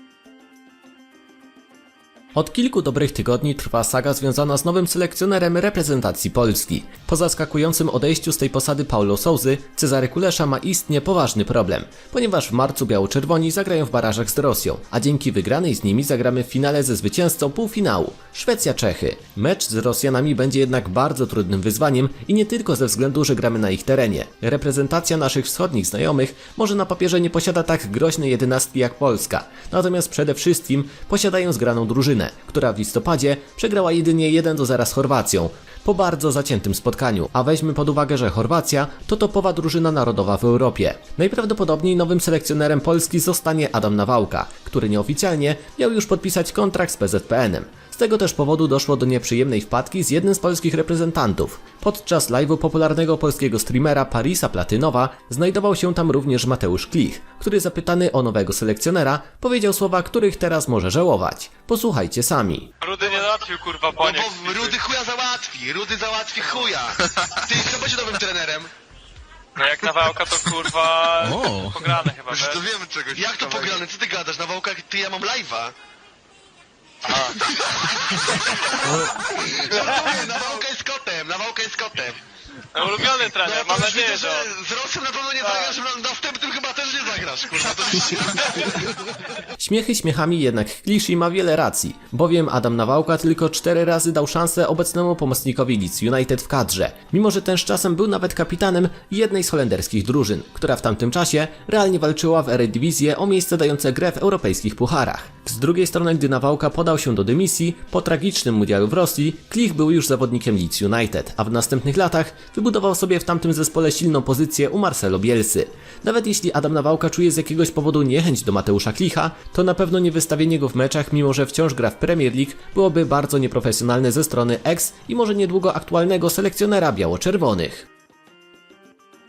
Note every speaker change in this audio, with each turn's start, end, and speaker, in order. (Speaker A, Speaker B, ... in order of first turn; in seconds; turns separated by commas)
Speaker A: 2.3-62.7, Speaker B: 62.8-64.8, Speaker C: 64.0-68.7, Speaker B: 69.6-72.7, Speaker C: 72.3-75.8, Speaker B: 73.2-73.8, Speaker B: 77.0-77.8, Speaker C: 77.4-82.2, Speaker B: 82.7-84.5, Speaker C: 83.0-88.9, Speaker B: 85.4-85.8, Speaker A: 89.6-127.9